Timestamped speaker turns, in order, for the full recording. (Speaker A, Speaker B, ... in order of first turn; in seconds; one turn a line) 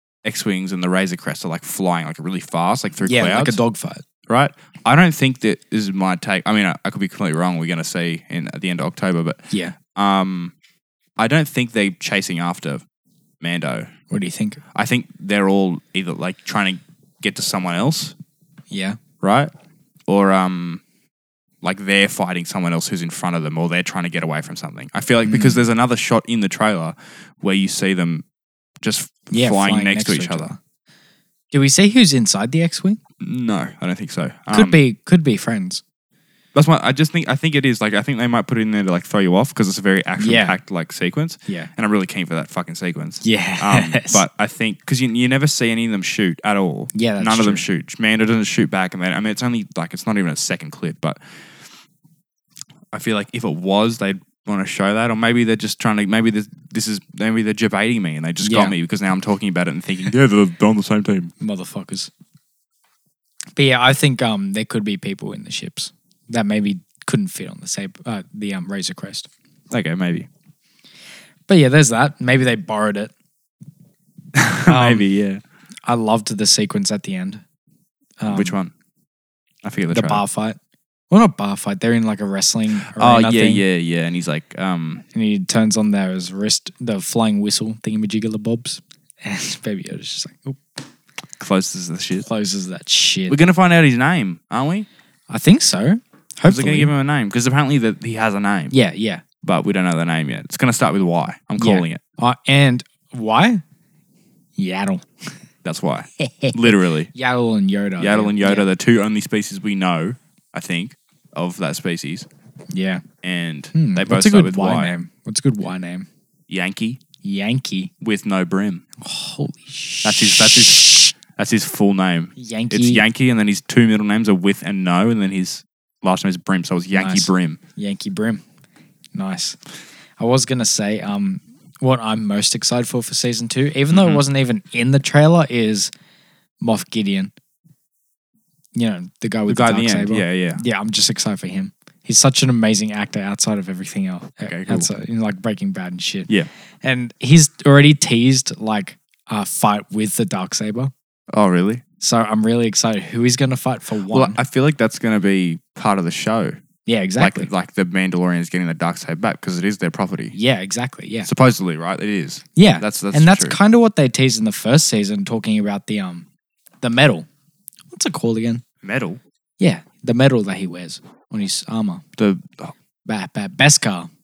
Speaker A: 0.2-3.6
Speaker B: 3.0-4.0
Speaker A: 4.3-10.5
Speaker B: 9.5-9.8
Speaker A: 11.2-12.8
Speaker A: 13.4-13.9
Speaker B: 14.1-14.6
Speaker A: 14.7-18.1
Speaker B: 18.7-19.0
Speaker A: 19.2-19.5
Speaker A: 20.1-20.8
Speaker A: 21.6-28.2
Speaker B: 25.2-25.6
Speaker A: 28.8-30.5
Speaker B: 29.3-30.6
Speaker B: 31.5-33.0
Speaker A: 33.2-34.8
Speaker B: 34.5-35.8
Speaker A: 36.5-51.2
Speaker B: 40.2-40.5
Speaker B: 43.2-44.2
Speaker B: 46.9-47.6
Speaker A: 52.9-61.3
Speaker B: 58.4-58.7
Speaker B: 61.4-62.1
Speaker B: 63.5-69.3
Speaker A: 69.7-70.3
Speaker B: 71.5-73.1
Speaker A: 74.3-75.4
Speaker B: 74.7-75.0
Speaker B: 75.8-77.4
Speaker B: 78.2-78.5
Speaker A: 78.3-78.7
Speaker A: 79.6-80.2
Speaker B: 79.9-80.6
Speaker B: 81.1-83.6
Speaker A: 82.9-85.0
Speaker B: 85.1-90.6
Speaker A: 91.4-92.3
Speaker B: 92.2-93.4
Speaker A: 93.3-94.9
Speaker B: 95.3-96.9
Speaker A: 96.4-98.7
Speaker B: 98.7-99.2
Speaker A: 99.4-102.0
Speaker B: 101.6-103.6
Speaker B: 104.5-105.3
Speaker A: 105.6-107.1
Speaker B: 106.2-108.7
Speaker A: 108.0-112.3
Speaker B: 112.7-113.0
Speaker A: 113.2-114.9
Speaker B: 113.7-116.1
Speaker A: 116.5-117.0
Speaker B: 117.2-117.9
Speaker A: 118.0-118.8
Speaker B: 119.0-121.0
Speaker A: 120.0-127.6
Speaker B: 122.3-123.0
Speaker B: 126.9-128.4
Speaker B: 129.1-129.6
Speaker B: 130.2-135.9
Speaker A: 133.9-134.2
Speaker B: 136.6-137.3
Speaker B: 138.7-146.3
Speaker A: 139.5-140.6
Speaker A: 144.4-144.9
Speaker B: 146.8-150.9
Speaker A: 151.3-151.8
Speaker B: 152.0-154.4
Speaker A: 154.1-156.6
Speaker B: 156.8-157.5
Speaker A: 157.2-160.3
Speaker B: 160.3-161.3
Speaker A: 161.2-163.6
Speaker B: 162.6-166.2
Speaker B: 166.8-167.3
Speaker B: 167.9-168.6
Speaker A: 168.8-169.2
Speaker B: 169.6-172.0
Speaker A: 172.2-172.7
Speaker B: 173.0-174.1